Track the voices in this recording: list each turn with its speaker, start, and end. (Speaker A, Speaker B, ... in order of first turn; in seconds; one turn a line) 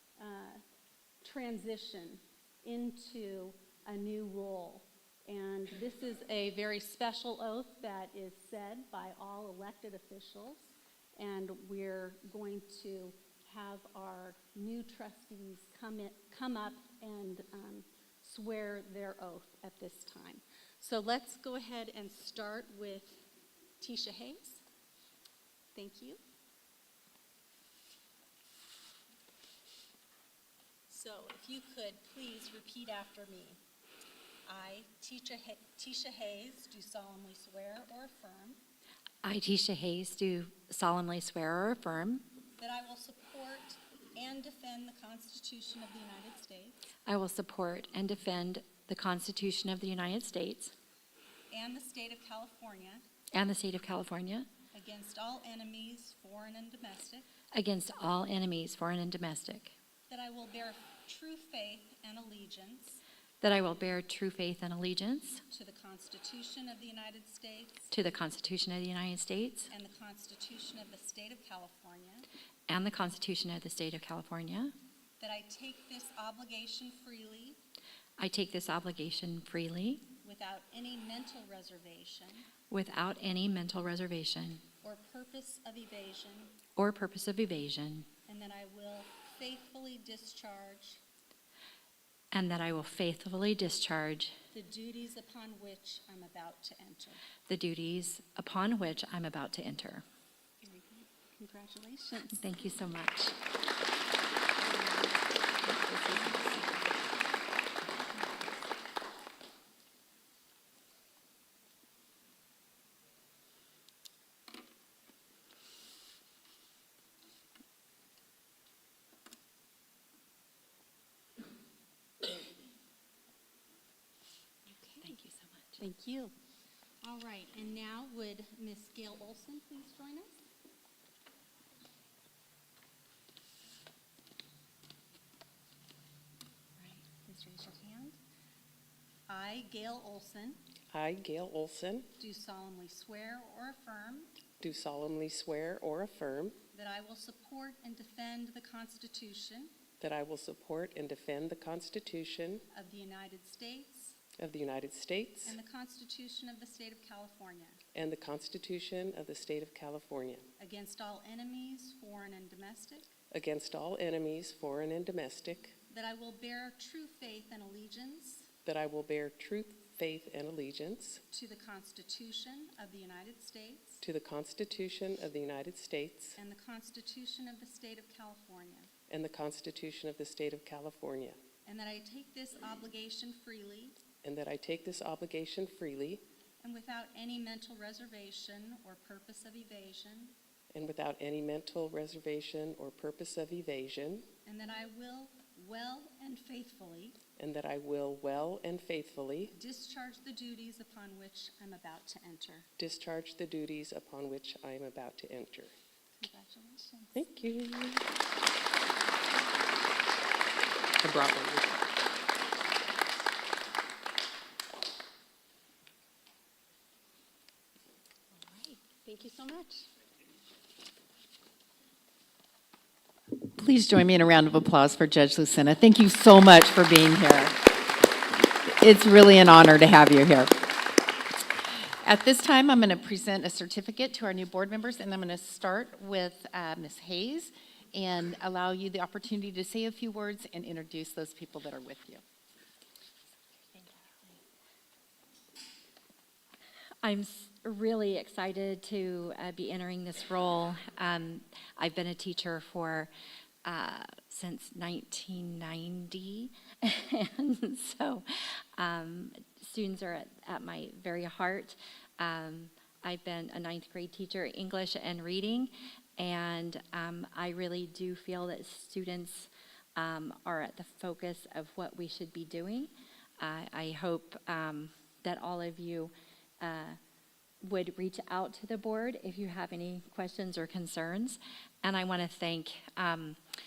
Speaker A: 0.2-0.6
Speaker A: 1.2-23.2
Speaker A: 23.8-24.6
Speaker A: 25.7-26.2
Speaker A: 30.9-33.6
Speaker A: 34.5-38.6
Speaker B: 39.2-42.2
Speaker A: 42.6-46.8
Speaker B: 47.1-50.7
Speaker A: 51.5-53.0
Speaker B: 53.3-54.5
Speaker A: 54.7-57.3
Speaker B: 57.5-59.7
Speaker A: 60.1-63.0
Speaker B: 63.4-65.4
Speaker A: 65.5-67.9
Speaker B: 67.9-69.7
Speaker A: 69.7-72.3
Speaker B: 72.7-74.7
Speaker A: 75.2-77.6
Speaker B: 78.2-80.0
Speaker A: 80.2-82.5
Speaker B: 82.7-84.6
Speaker A: 84.8-86.6
Speaker B: 86.8-88.0
Speaker A: 88.3-91.0
Speaker B: 92.3-94.3
Speaker A: 94.5-97.2
Speaker B: 97.5-100.0
Speaker A: 100.6-102.4
Speaker B: 102.4-103.4
Speaker A: 104.6-107.0
Speaker B: 105.7-106.6
Speaker A: 124.7-125.2
Speaker B: 125.0-125.8
Speaker A: 125.8-126.3
Speaker A: 127.0-130.3
Speaker A: 136.8-138.2
Speaker A: 139.3-140.6
Speaker C: 140.9-142.1
Speaker A: 142.2-144.3
Speaker C: 144.6-146.6
Speaker A: 146.7-149.7
Speaker C: 150.0-152.6
Speaker A: 152.7-154.2
Speaker C: 154.4-155.6
Speaker A: 155.4-157.8
Speaker C: 157.9-160.4
Speaker A: 160.6-163.1
Speaker C: 163.3-165.8
Speaker A: 165.9-168.5
Speaker C: 168.7-171.2
Speaker A: 171.3-174.0
Speaker C: 174.0-176.4
Speaker A: 176.4-178.9
Speaker C: 179.1-181.4
Speaker A: 181.7-183.9
Speaker C: 184.2-186.2
Speaker A: 186.6-190.3
Speaker C: 190.7-194.2
Speaker A: 194.4-197.2
Speaker C: 197.4-199.5
Speaker A: 199.5-202.7
Speaker C: 202.8-205.7
Speaker A: 206.2-207.1
Speaker C: 207.1-208.1
Speaker C: 211.0-211.9
Speaker A: 218.3-219.9
Speaker D: 223.3-227.6
Speaker D: 228.6-230.7
Speaker D: 231.9-242.2
Speaker B: 243.7-244.1
Speaker B: 247.0-253.1
Speaker B: 253.6-277.0
Speaker B: 277.6-283.4